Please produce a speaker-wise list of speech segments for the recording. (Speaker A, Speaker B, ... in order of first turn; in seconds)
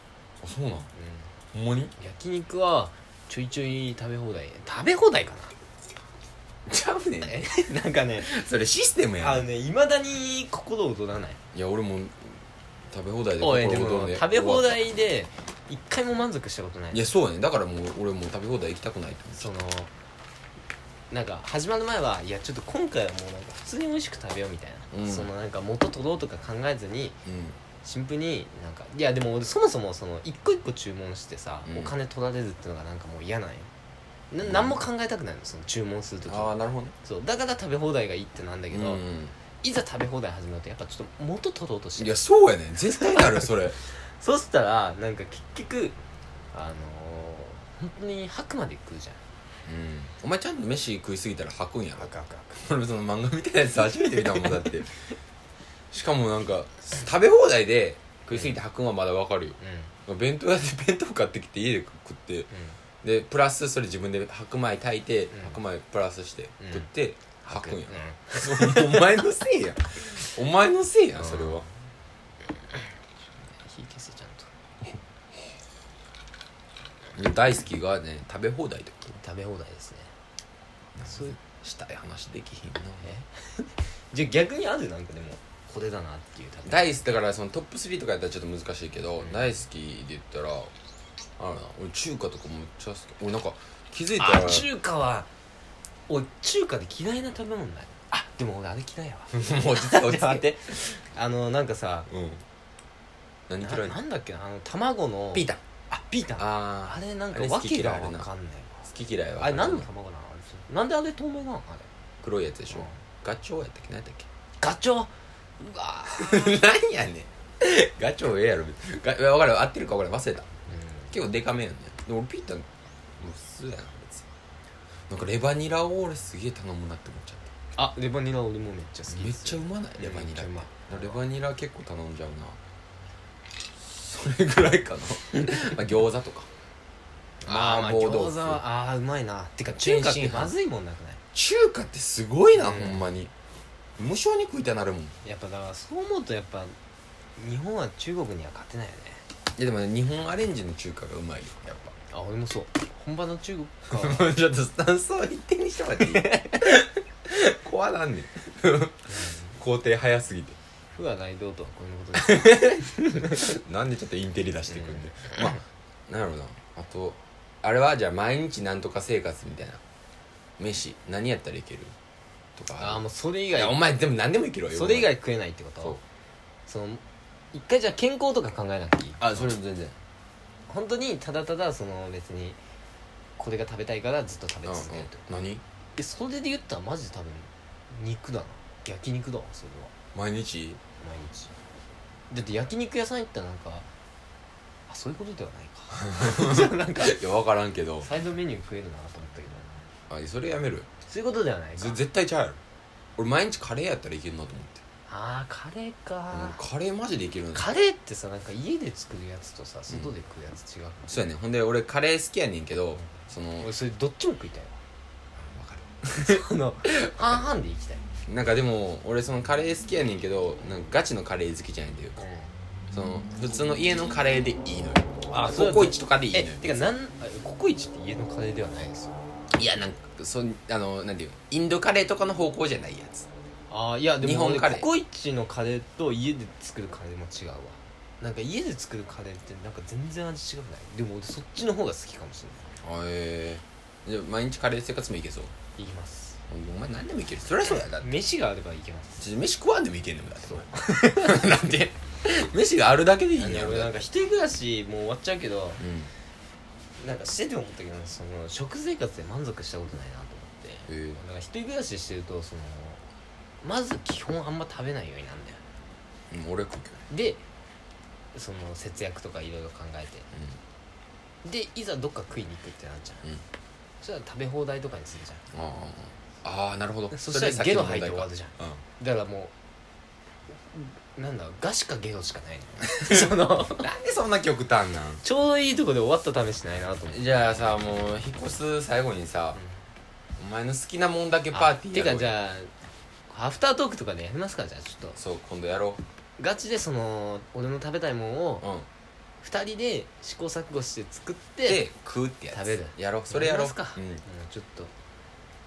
Speaker A: 0.4-0.9, 1.5-1.9, 6.7-7.5, 8.2-9.4, 11.5-12.4, 12.9-14.8, 16.9-19.5, 24.9-25.3, 27.2-27.6, 31.7-31.9, 34.4-34.8, 36.2-36.9, 38.7-39.3, 42.0-43.8, 49.6-54.9, 55.9-62.5, 63.0-71.7, 77.1-79.2, 81.0-83.1, 86.7-90.7, 91.4-94.7, 99.3-100.4, 102.1-102.4, 103.5-104.0, 105.3-105.6, 106.4-108.3, 108.9-109.8, 112.2-114.3, 116.0-120.5, 121.1-122.7, 123.2-124.3, 125.1-127.5, 129.1-132.6, 133.8-136.5, 137.4-138.6, 139.8-140.5, 141.3-143.3, 144.0-145.1, 149.6-151.9, 153.9-160.6, 162.2-169.8, 170.6-171.9, 172.6-173.0, 173.5-175.1, 179.2-180.0, 184.6-185.6, 190.1-190.8, 196.1-198.1, 200.1-200.9, 201.8-202.6, 203.2-204.8, 206.3-207.7, 211.1-213.7, 215.3-217.4, 218.3-222.2, 222.9-226.9, 229.5-233.3, 234.2-234.9, 242.8-245.5, 246.5-248.1, 249.2-254.0, 255.8-256.1, 260.9-261.2, 266.3-267.0, 275.5-278.8, 283.0-285.2, 287.1-289.6, 290.4-292.3, 295.1-296.0, 298.6-298.9, 301.6-304.2
Speaker B: 0.9-1.3, 2.0-5.5, 7.2-8.3, 9.2-11.4, 13.4-17.1, 19.3-19.9, 21.1-27.2, 27.8-33.7, 34.3-36.5, 37.0-39.0, 39.6-42.2, 42.9-46.0, 46.5-49.2, 52.0-52.6, 59.6-59.9, 62.5-62.8, 66.6-66.9, 67.4-69.2, 71.2-71.7, 73.3-74.5, 79.2-80.1, 81.0-81.4, 83.0-86.9, 89.2-89.5, 94.2-95.3, 96.1-102.1, 103.6-111.9, 112.7-113.0, 114.6-116.6, 120.7-121.1, 127.7-131.2, 137.4-141.2, 142.5-143.2, 145.2-146.8, 147.4-149.2, 152.1-154.3, 156.0-156.8, 159.1-159.5, 160.9-163.6, 164.7-165.6, 172.8-173.8, 174.7-176.0, 176.7-179.4, 180.7-182.6, 183.4-185.3, 185.9-189.9, 191.0-191.5, 192.3-193.9, 194.9-197.2, 198.0-199.7, 201.1-202.0, 205.1-206.6, 207.5-211.2, 213.6-214.8, 216.1-218.0, 222.2-222.5, 225.3-229.2, 233.7-242.7, 245.8-246.4, 247.6-249.2, 250.4-251.6, 253.3-255.8, 257.0-263.0, 263.6-265.6, 267.1-267.4, 268.3-270.3, 271.4-273.2, 274.0-275.4, 277.1-279.5, 280.5-283.9, 285.2-287.6, 289.6-289.8, 291.5-292.7, 293.3-295.2, 296.4-298.7, 299.4-301.8, 302.5-304.9